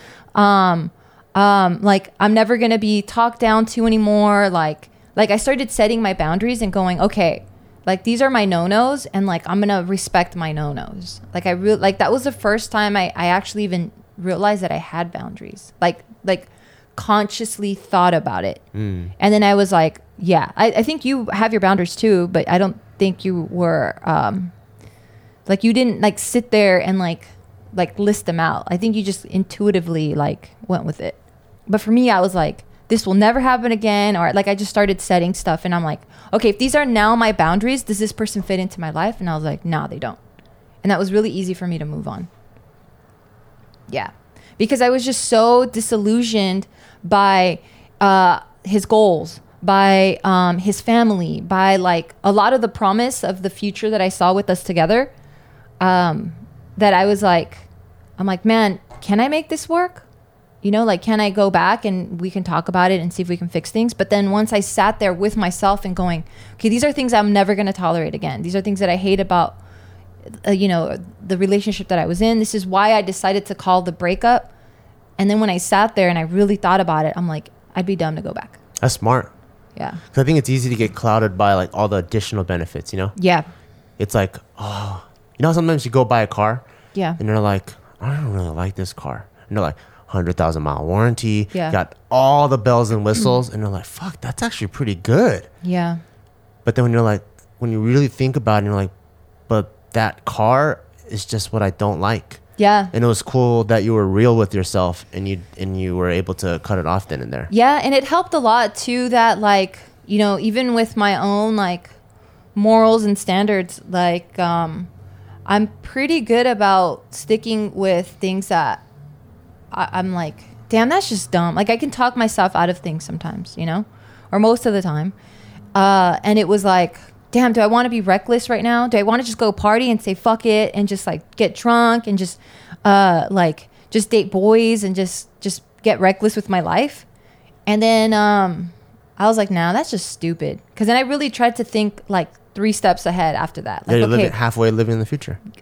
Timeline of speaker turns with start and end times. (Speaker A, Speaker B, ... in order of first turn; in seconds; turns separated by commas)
Speaker A: 0.3-18.6, Speaker B: 18.7-19.1, Speaker A: 19.2-24.5, Speaker A: 25.5-40.2, Speaker A: 40.8-42.3, Speaker A: 43.9-55.1, Speaker A: 55.8-57.7, Speaker A: 58.2-60.0, Speaker A: 60.6-69.6, Speaker A: 70.4-74.5, Speaker A: 75.2-78.6, Speaker B: 78.8-79.3, Speaker A: 79.8-80.0, Speaker B: 80.1-83.1, Speaker A: 83.2-83.5, Speaker B: 84.0-86.6, Speaker A: 87.0-87.2, Speaker B: 87.2-95.5, Speaker A: 95.6-96.0, Speaker B: 96.6-98.9, Speaker B: 99.5-102.4, Speaker A: 102.6-102.9, Speaker B: 102.9-107.5, Speaker A: 107.5-111.9, Speaker A: 112.5-114.9, Speaker A: 115.5-118.8, Speaker A: 119.7-125.1, Speaker A: 125.7-137.1, Speaker A: 137.7-144.3, Speaker B: 143.9-145.4